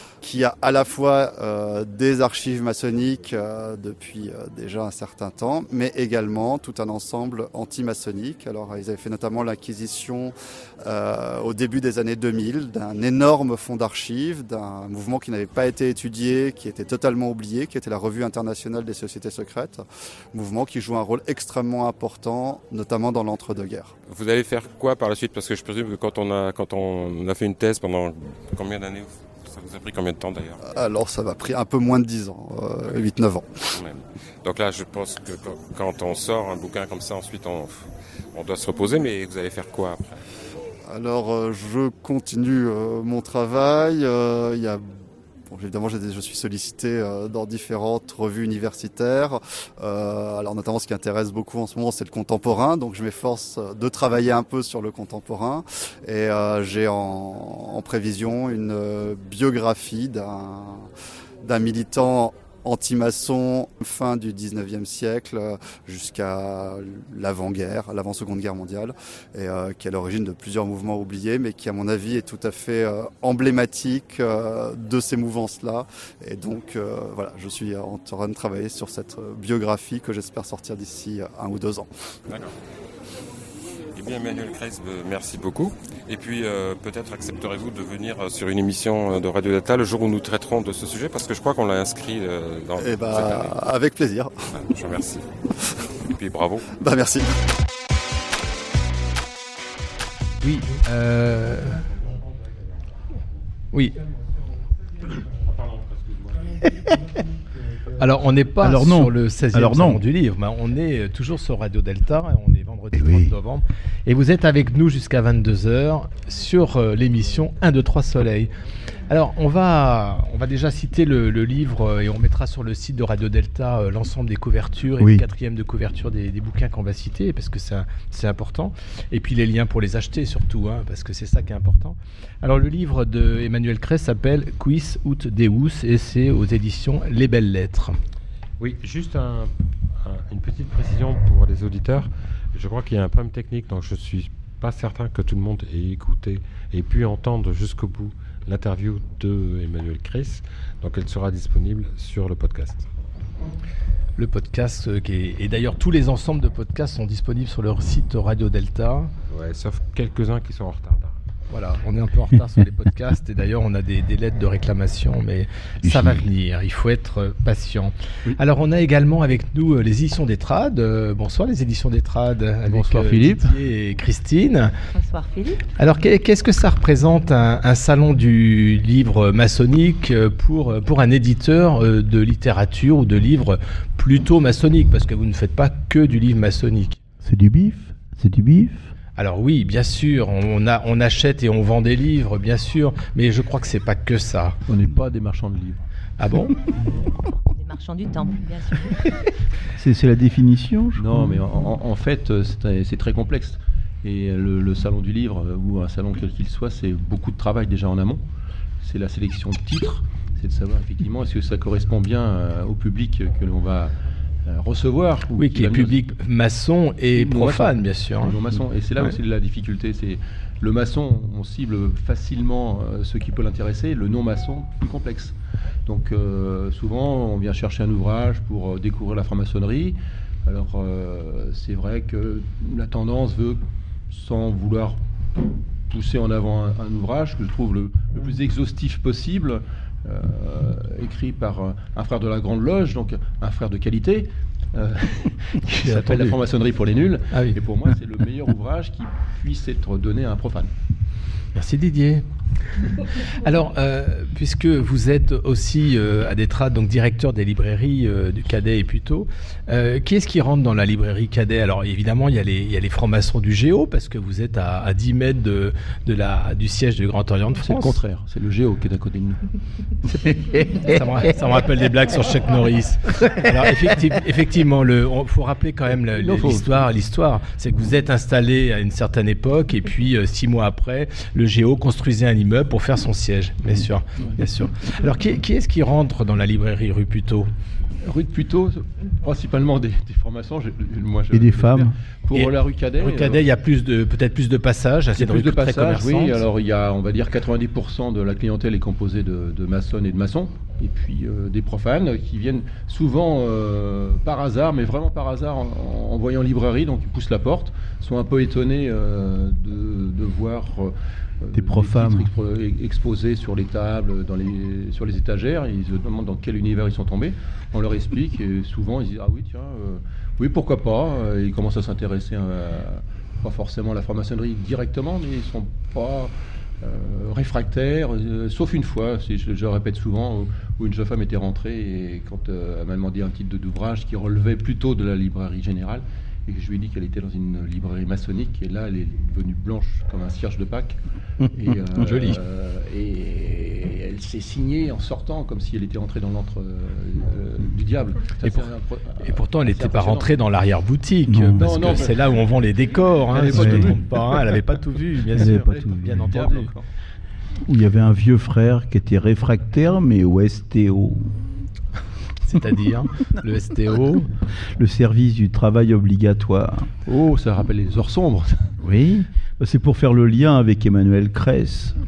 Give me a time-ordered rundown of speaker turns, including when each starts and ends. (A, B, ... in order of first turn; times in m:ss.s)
0:00.2-0:23.9 A
0:24.1-0:30.6 B
0:30.6-0:33.6 A
0:33.7-0:40.2 B
0:40.9-0:44.9 A
0:45.5-1:00.9 A
1:01.4-1:21.9 A
1:23.9-1:33.5 B
1:32.8-1:34.3 A
1:34.6-1:35.2 B
1:36.1-1:36.7 B
1:36.8-1:37.3 A
1:40.4-1:41.8 C
1:43.7-1:44.0 C
1:45.4-1:46.4 B
1:48.0-1:58.5 C
1:48.6-1:50.0 D
1:52.9-1:53.3 D
1:59.1-2:18.0 C
2:05.0-2:05.2 D
2:18.6-2:32.8 B
2:34.2-2:39.1 C
2:39.3-2:41.2 B
2:41.5-2:54.7 C
2:45.8-2:46.3 D
2:52.7-2:53.5 D
2:54.9-2:55.6 E
2:55.8-3:07.0 C
3:07.2-3:08.9 D
3:09.2-3:14.6 C
3:14.7-3:15.8 F
3:16.2-3:16.6 C
3:16.9-3:19.0 E
3:19.8-3:21.4 D
3:21.0-3:28.2 F
3:28.8-3:36.0 F
3:35.3-3:38.4 C
3:37.2-3:55.0 F
3:55.9-4:10.7 F
4:05.8-4:06.3 C
4:07.3-4:07.6 C
4:11.5-4:12.2 C
4:13.4-4:28.0 C
4:27.6-4:29.5 F
4:30.9-4:47.5 C
4:36.2-4:36.7 F
4:48.0-4:53.4 F
4:51.3-4:52.0 D
4:52.3-4:56.4 C
4:55.2-5:41.0 F
5:11.5-5:12.3 D
5:41.4-5:41.7 D
5:41.5-5:50.4 F
5:48.4-5:48.7 C
5:49.2-5:56.7 C
5:51.3-5:52.0 D
5:51.6-5:52.6 F
5:53.3-5:54.6 F
5:53.5-5:53.9 D
5:55.3-5:56.4 D
5:55.4-5:56.8 F
5:57.6-6:01.4 D
6:02.5-6:04.3 C
6:04.7-6:06.9 D
6:07.0-6:08.8 F
6:08.8-6:11.9 D